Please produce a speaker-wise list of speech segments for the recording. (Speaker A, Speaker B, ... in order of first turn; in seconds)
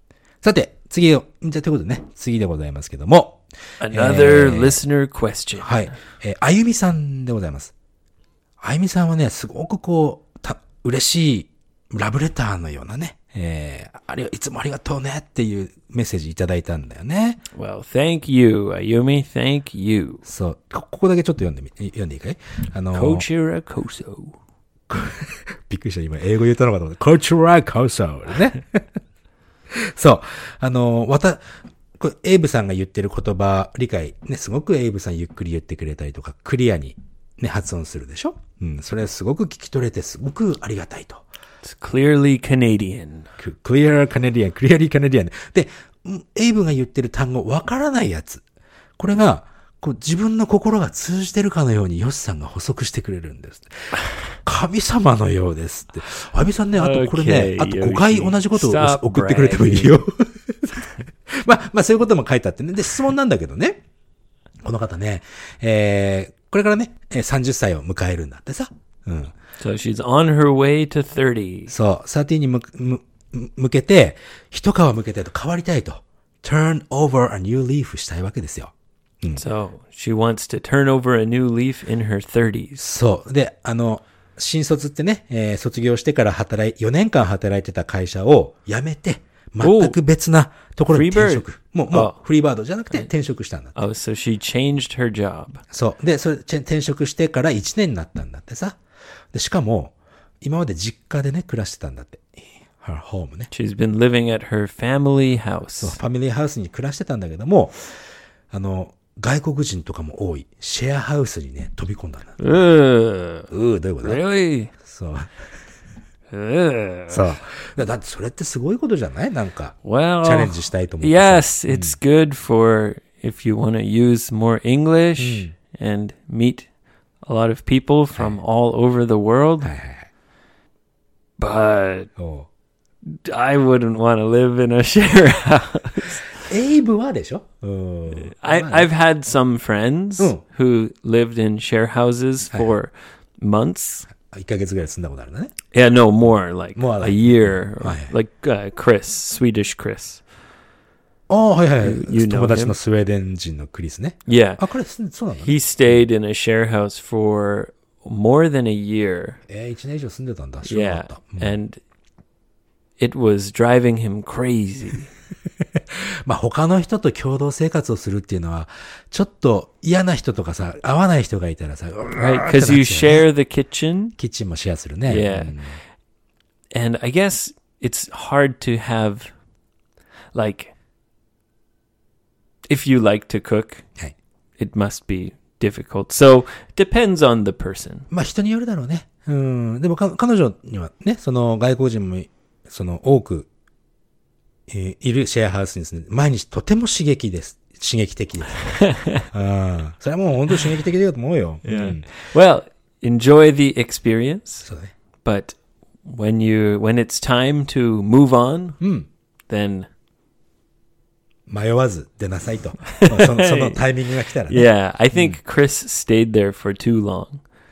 Speaker A: 0.4-4.8, 5.6-7.7, 8.6-17.4, 20.2-23.2, 24.9-28.9, 29.7-41.2, 43.4-48.4, 49.0-63.8, 64.6-69.3, 71.7-79.4, 82.8-93.8, 95.7-98.8, 99.3-103.5, 105.8-107.9, 108.5-112.3, 113.5-114.2, 114.8-115.3, 117.1-122.0, 125.2-125.5, 129.6-130.1, 132.2-132.5, 136.4-138.9, 144.1-145.5, 146.8-148.1, 151.3-155.9, 159.5-161.5, 165.9-173.3, 174.2-175.8, 188.1-193.5, 194.7-202.1, 204.7-204.9, 208.8-209.1, 211.5-215.4
Speaker B: 3.8-5.9, 17.5-20.2, 22.9-24.3, 41.6-43.3, 56.8-60.0, 69.6-71.7, 79.3-82.8, 89.6-90.0, 90.9-92.2, 93.7-95.6, 103.5-106.0, 112.4-113.5, 114.0-114.7, 116.3-117.4, 119.8-126.7, 127.2-129.7, 131.4-132.1, 133.1-136.3, 138.1-144.1, 145.7-150.2, 151.8-152.8, 154.2-154.6, 155.4-159.4, 160.6-161.8, 163.0-165.1, 172.2-174.1, 175.1-175.5, 176.7-179.3, 180.3-180.7, 182.7-183.8, 184.6-188.1, 198.6-199.3, 201.6-204.7, 205.2-208.8, 209.5-209.9, 212.9-213.8, 214.5-217.4